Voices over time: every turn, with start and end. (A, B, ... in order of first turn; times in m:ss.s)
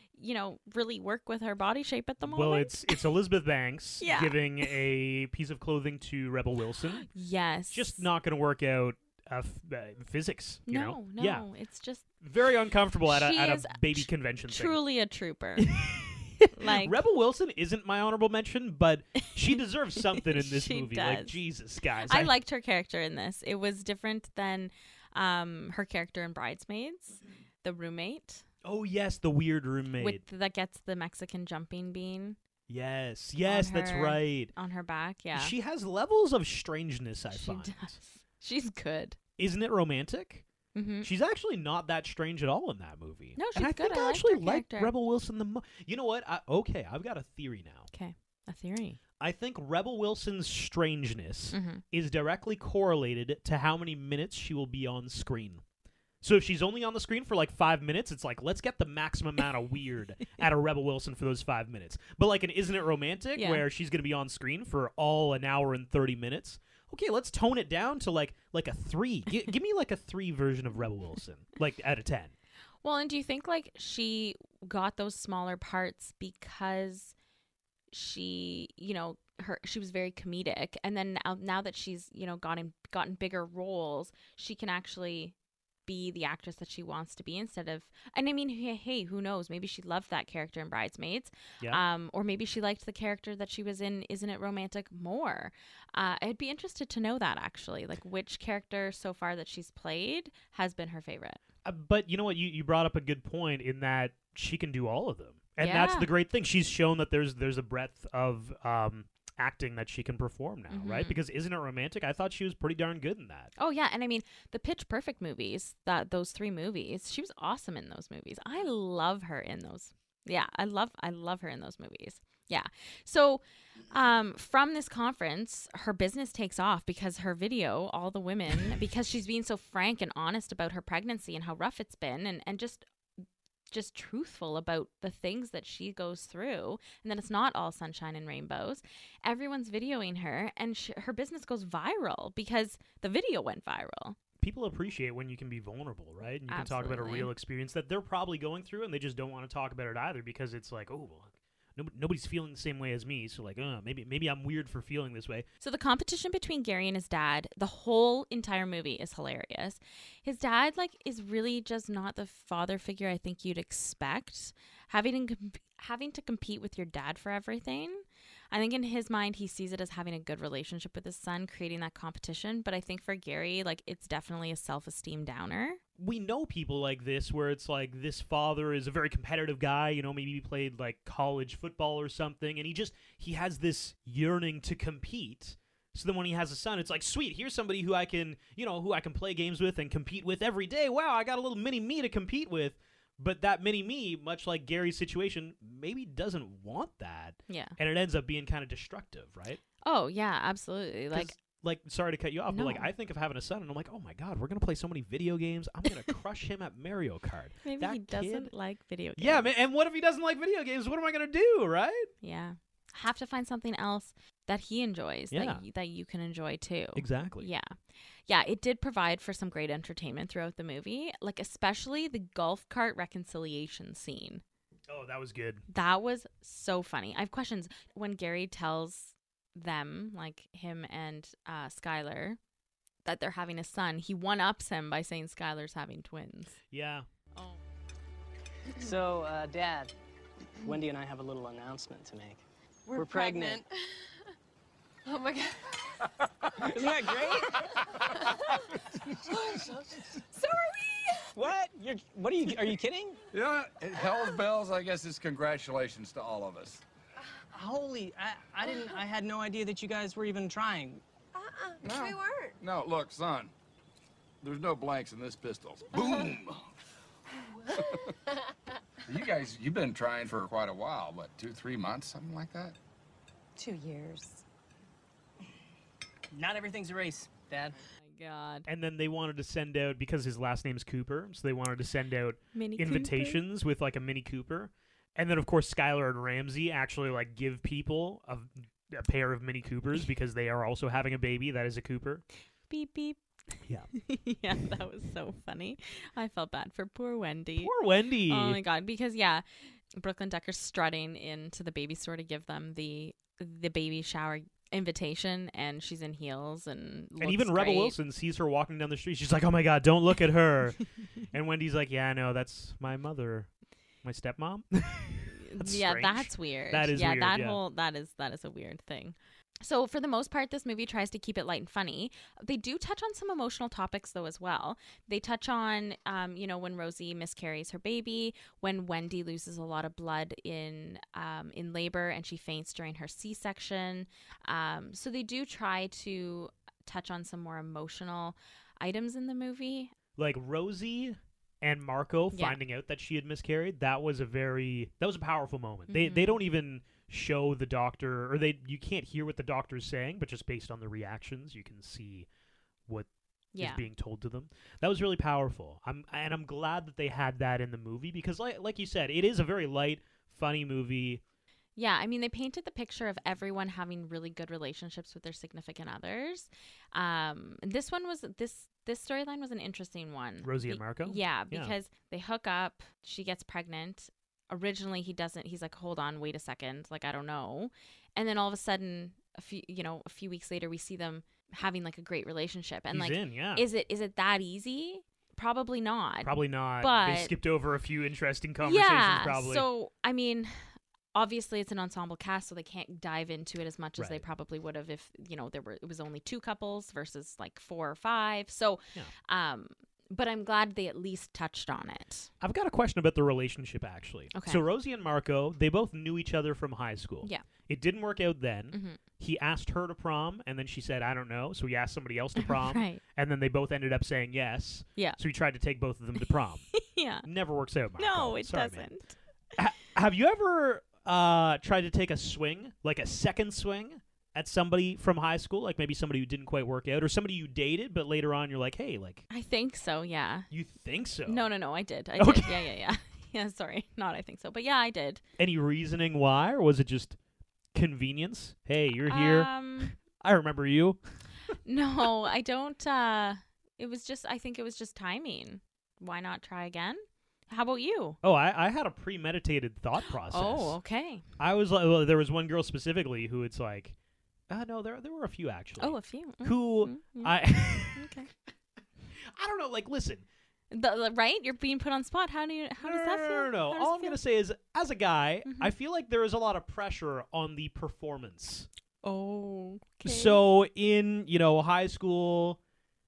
0:00.2-0:03.1 A
0:02.2-0:07.1 B
0:04.0-0:04.8 A
0:07.0-0:08.1 A
0:07.7-0:11.5 B
0:10.7-0:12.1 A
0:12.2-0:14.8 B
0:13.0-0:15.7 A
0:15.6-0:22.3 B
0:16.5-0:17.0 A
0:20.0-0:21.4 A
0:22.0-0:28.4 A
0:28.6-0:30.2 B
0:30.0-0:32.4 A
0:32.7-0:34.5 B
0:33.4-0:35.5 A
0:35.3-0:38.0 B
0:37.3-0:39.2 A
0:39.4-0:40.4 B
0:40.7-0:41.1 A
0:41.0-0:47.9 B
0:43.4-0:44.9 A
0:47.9-0:49.0 A
0:49.2-0:55.6 B
0:51.5-0:51.8 A
0:56.2-1:12.3 B
1:03.4-1:03.6 A
1:12.8-1:17.1 A
1:17.9-1:25.3 A
1:25.9-1:41.4 A
1:41.6-1:53.5 B
1:45.6-1:46.1 A
1:50.7-1:51.2 A
1:53.6-2:12.8 A
2:13.7-2:24.2 A
2:24.4-2:35.5 B
2:26.5-2:27.3 A
2:35.6-2:55.8 A
2:56.0-3:19.6 B
3:17.5-3:17.8 A
3:19.8-3:21.4 A
3:21.1-3:28.5 B
3:22.5-3:22.9 A
3:27.6-3:29.5 A
3:29.2-3:32.1 B
3:32.2-3:37.8 A
3:35.3-3:35.6 B
3:37.0-3:37.5 B
3:38.3-3:44.4 A
3:44.9-3:45.6 B
3:45.7-3:52.4 A
3:53.0-3:56.6 A
3:56.7-3:57.1 B
3:57.4-3:57.6 A
3:58.8-3:59.9 C
4:00.6-4:03.7 C
4:02.9-4:03.6 D
4:05.1-4:06.0 D
4:06.6-4:11.3 D
4:06.6-4:07.7 C
4:11.4-4:13.2 C
4:13.3-4:16.8 E
4:17.5-4:21.0 C
4:21.4-4:22.6 D
4:21.8-4:23.5 E
4:24.4-4:26.7 E
4:29.1-4:32.8 E
4:33.6-4:34.4 D
4:36.3-4:37.8 C
4:38.0-4:38.7 A
4:38.7-4:52.2 B
4:42.6-4:43.4 A
4:52.7-4:57.7 A
4:57.6-4:58.6 B
4:58.3-5:08.0 A
5:07.2-5:13.5 B
5:14.0-5:17.6 B
5:15.3-5:39.9 A
5:40.2-5:52.3 B
5:42.3-5:42.6 A
5:45.9-5:46.4 A
5:52.9-6:01.2 B
5:53.5-5:53.8 A
6:01.8-6:27.4 A
6:10.4-6:11.8 B
6:22.9-6:23.6 B
6:26.2-6:29.7 B
6:28.6-6:42.3 A
6:34.0-6:34.2 B
6:42.4-6:56.7 B
6:44.3-6:44.6 A
6:48.7-6:49.0 A
6:52.4-6:53.0 A
6:56.7-6:57.3 A
6:57.2-6:58.9 B
6:58.0-6:59.1 A
6:59.6-7:09.3 B
7:09.3-7:10.5 A
7:10.5-7:11.5 B
7:11.3-7:15.2 A
7:12.2-7:12.8 B
7:15.4-7:17.2 B
7:17.7-7:21.0 B
7:19.0-7:19.9 A
7:21.6-7:28.2 A
7:28.2-7:30.8 B
7:30.3-7:31.2 A
7:31.4-7:34.0 B
7:34.5-7:38.5 B
7:35.8-7:38.3 A
7:39.2-7:40.2 B
7:40.7-7:44.2 A
7:42.8-7:48.7 B
7:45.4-7:45.7 A
7:49.0-7:50.4 A
7:50.0-7:52.6 B